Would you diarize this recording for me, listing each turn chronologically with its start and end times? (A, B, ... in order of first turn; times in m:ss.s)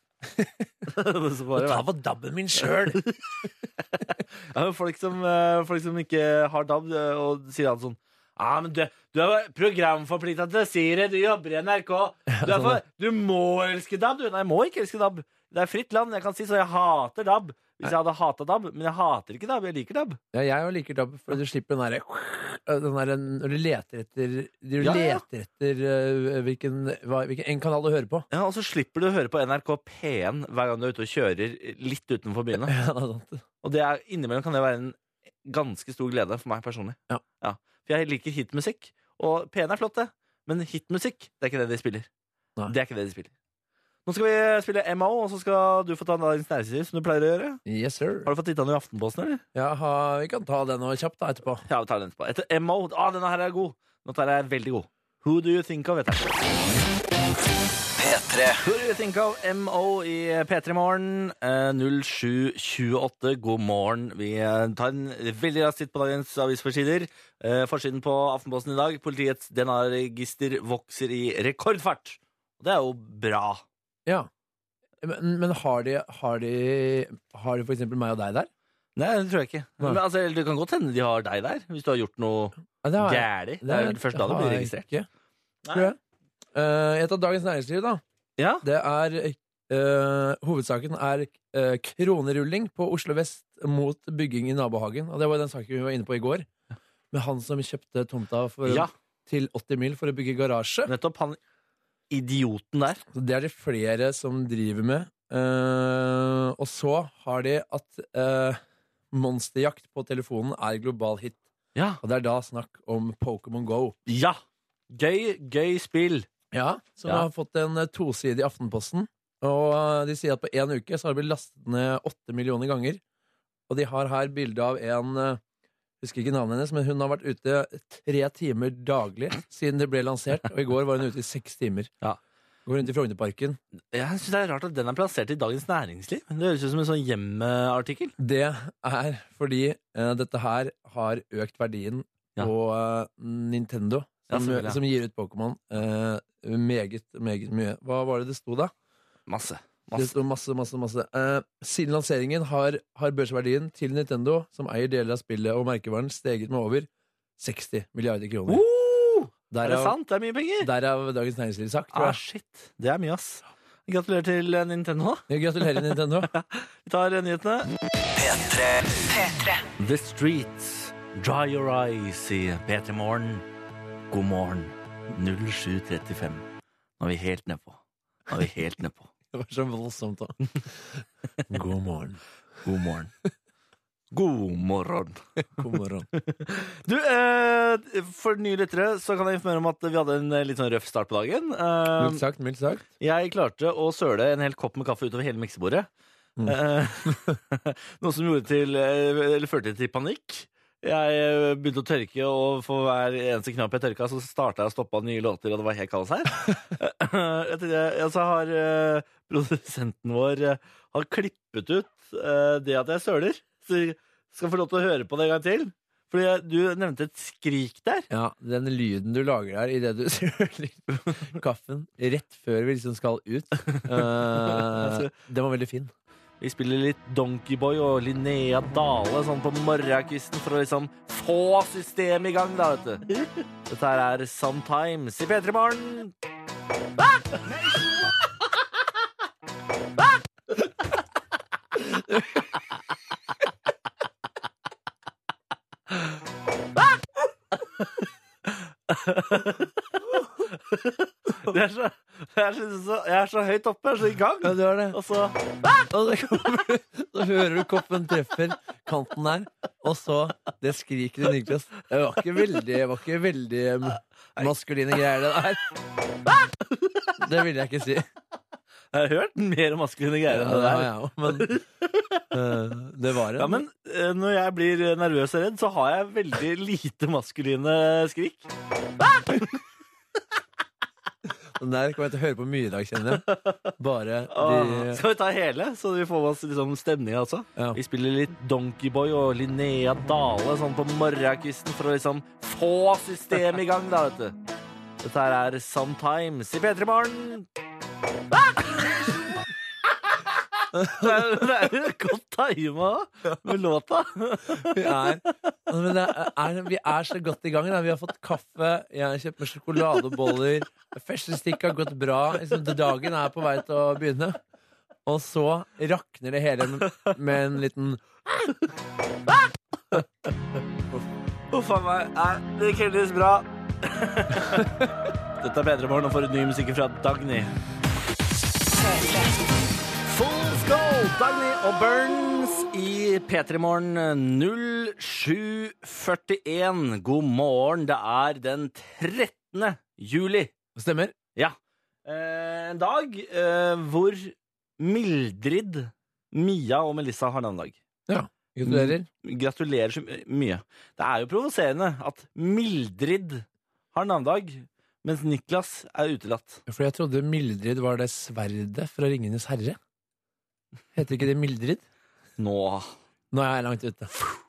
0:00.3-0:00.9 A
0:00.9-0:01.8 B
0:01.5-0:03.0 A
0:02.6-0:20.2 B
0:12.3-0:12.8 A
0:20.3-0:28.3 A
0:24.8-0:25.2 B
0:28.3-0:32.7 B
0:32.7-0:33.4 A
0:33.6-0:42.1 B
0:42.7-0:43.3 B
0:44.0-0:47.6 B
0:47.6-0:48.3 A
0:48.2-0:49.4 B
0:49.5-0:51.6 A
0:51.6-0:56.3 B
0:58.0-0:58.6 C
0:58.6-1:13.6 B
1:15.0-1:18.5 A
1:19.0-1:24.9 B
1:22.8-1:25.1 A
1:25.6-1:25.9 B
1:26.5-1:28.0 A
1:28.4-1:28.6 B
1:28.6-1:36.5 A
1:37.1-1:40.9 A
1:38.6-1:38.9 B
1:40.8-1:41.4 B
1:42.1-1:43.0 B
1:43.1-1:48.6 A
1:49.1-1:51.4 A
1:51.7-1:52.0 B
1:52.0-1:54.0 A
1:54.1-1:54.4 B
1:54.9-1:56.3 B
1:56.5-2:03.0 A
2:03.7-2:05.4 A
2:06.0-2:11.9 A
2:12.6-2:13.6 A
2:13.9-2:18.1 B
2:18.2-2:28.7 A
2:24.3-2:24.8 B
2:29.3-2:30.1 B
2:29.9-2:38.6 A
2:38.5-2:40.7 B
2:39.5-2:40.0 A
2:40.6-2:42.2 A
2:41.9-2:47.7 B
2:45.3-2:46.3 A
2:48.1-2:49.6 C
2:49.8-2:53.4 B
2:54.1-2:56.4 B
2:57.0-2:59.1 B
2:59.3-3:02.2 A
3:02.6-3:03.1 B
3:04.1-3:05.2 B
3:05.6-3:06.1 A
3:06.1-3:12.2 B
3:12.0-3:12.8 A
3:13.0-3:15.9 B
3:16.4-3:17.3 A
3:16.4-3:38.1 B
3:38.1-3:45.9 A
3:43.7-3:45.1 B
3:46.4-3:56.1 B
4:08.9-4:09.7 B
4:10.4-4:15.4 B
4:14.4-4:15.0 A
4:15.9-4:25.6 A
4:26.6-4:27.1 B
4:27.2-4:28.1 A
4:28.9-4:32.2 B
4:30.3-4:31.5 A
4:32.3-4:33.6 A
4:33.4-4:38.5 B
4:39.2-4:39.6 B
4:41.5-4:45.0 A
4:43.3-4:43.7 B
4:44.3-4:54.3 B
4:55.0-4:57.5 B
4:58.8-4:59.4 B
5:00.2-5:05.2 B
5:04.6-5:14.4 A
5:15.0-5:18.0 A
5:21.5-5:24.8 B
5:25.4-5:27.5 B
5:28.7-5:29.3 C
5:30.0-5:40.5 B
5:40.8-5:41.1 A
5:41.3-5:47.8 B
5:48.1-5:49.1 A
5:48.6-5:56.6 B
5:56.7-5:59.8 A
6:00.9-6:01.8 A
6:02.4-6:02.9 B
6:03.3-6:04.2 A